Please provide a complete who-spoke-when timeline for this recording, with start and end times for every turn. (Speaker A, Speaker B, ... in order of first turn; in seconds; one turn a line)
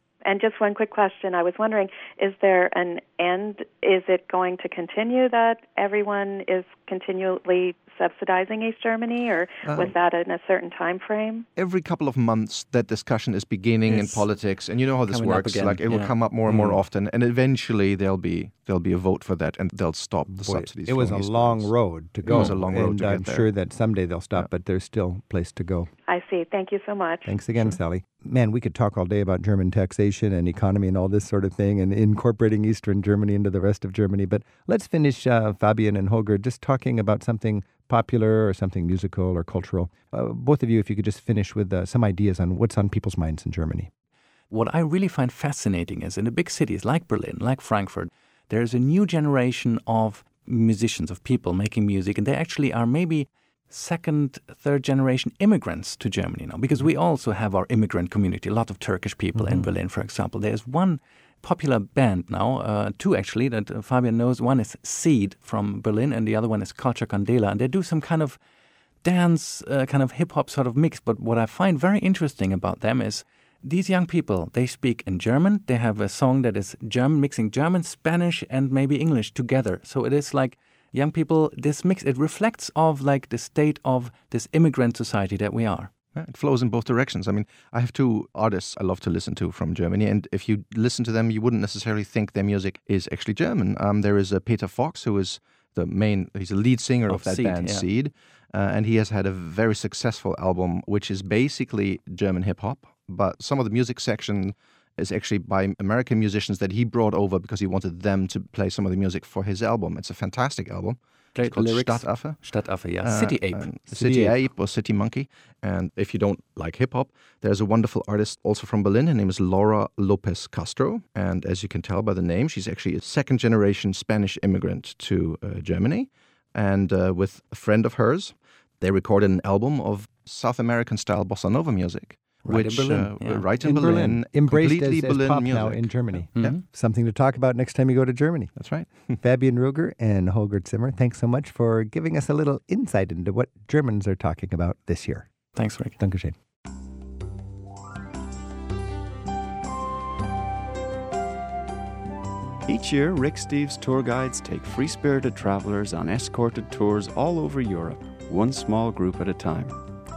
Speaker A: 0.2-11.4
Speaker B: 9.6-9.9
Speaker B: 11.6-21.7
Speaker C: 13.8-14.2
Speaker C: 15.1-16.8
Speaker D: 20.3-25.9
Speaker B: 22.2-23.5
Speaker C: 22.3-22.6
Speaker A: 26.1-27.3
Speaker D: 27.2-43.9
Speaker C: 44.5-68.4
Speaker C: 69.0-85.9
Speaker B: 86.1-112.4
Speaker C: 97.1-97.9
Speaker C: 111.3-114.4
Speaker B: 113.0-136.5
Speaker C: 132.4-133.4
Speaker D: 133.6-138.5
Speaker B: 138.6-139.1
Speaker D: 139.2-145.3
Speaker C: 145.5-145.9
Speaker D: 146.0-146.3
Speaker E: 152.7-159.8